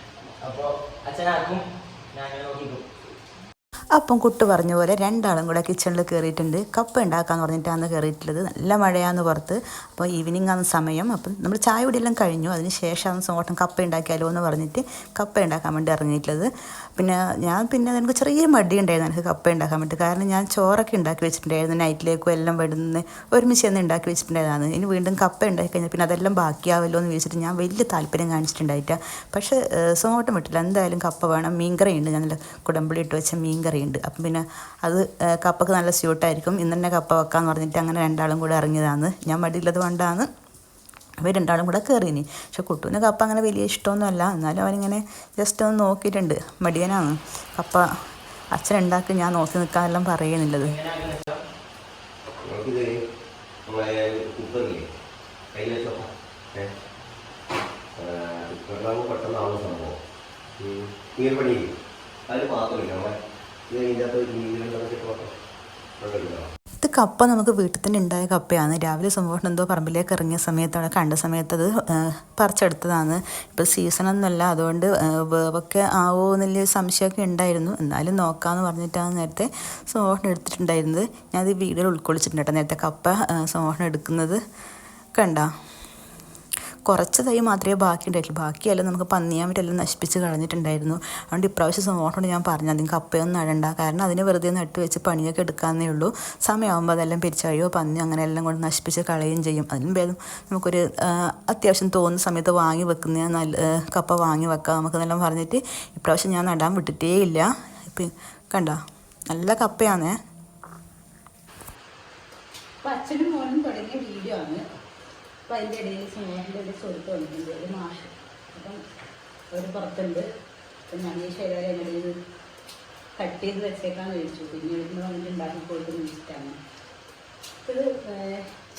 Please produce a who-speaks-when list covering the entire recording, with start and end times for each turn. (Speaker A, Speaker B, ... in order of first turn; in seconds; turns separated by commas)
Speaker A: 0.4-2.8, Speaker B: 3.9-40.3, Speaker B: 41.2-47.8, Speaker B: 48.5-50.8, Speaker A: 50.6-51.4, Speaker C: 52.4-52.9, Speaker C: 53.7-54.9, Speaker C: 55.5-56.7, Speaker C: 58.0-60.0, Speaker C: 60.6-61.7, Speaker C: 62.3-63.1, Speaker C: 63.7-65.3, Speaker C: 66.0-66.5, Speaker B: 66.8-84.4, Speaker B: 85.2-85.5, Speaker B: 86.8-108.8, Speaker B: 109.3-110.1, Speaker D: 112.8-114.6, Speaker D: 115.5-118.8, Speaker D: 119.5-120.2, Speaker D: 120.9-122.1, Speaker D: 123.2-126.5, Speaker D: 127.6-128.5